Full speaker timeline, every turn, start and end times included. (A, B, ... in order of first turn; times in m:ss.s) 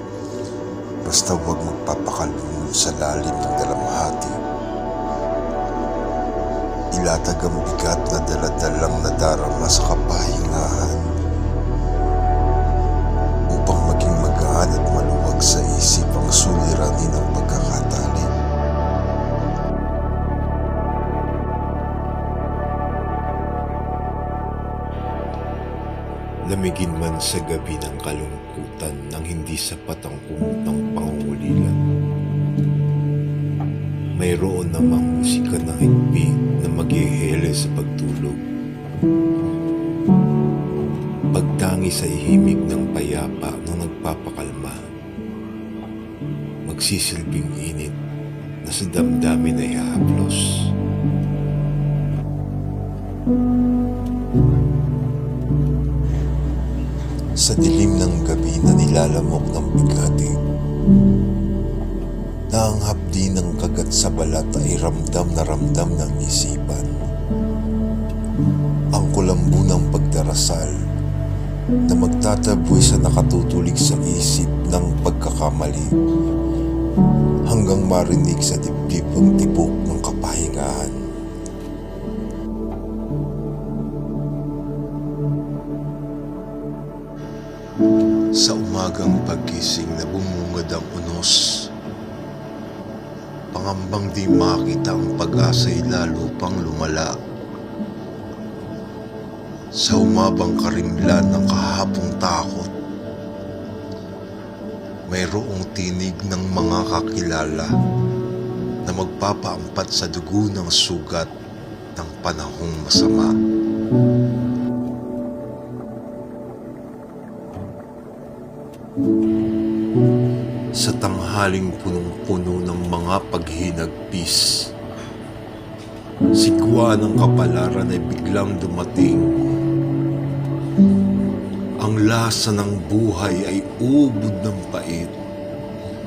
0:01.0-0:04.4 A
0:06.9-0:11.0 A
0:13.5-0:18.3 A
0:26.5-0:31.8 A
0:34.2-0:38.4 A
0:41.3-0:44.9 A
0:46.6-0:48.0 A
0:48.6-0:50.5 A
0:57.4-1:00.4 A
1:02.5-1:06.9 A
1:08.9-1:10.8 A
1:11.9-1:16.0 A
1:17.5-1:21.0 A
1:28.3-1:31.7 A
1:33.5-1:37.2 A
1:39.8-1:42.7 A
1:45.1-1:47.7 A
1:48.8-1:51.3 A
1:51.9-1:53.3 A
2:00.7-2:04.6 A
2:06.3-2:09.4 A
2:11.8-2:15.2 A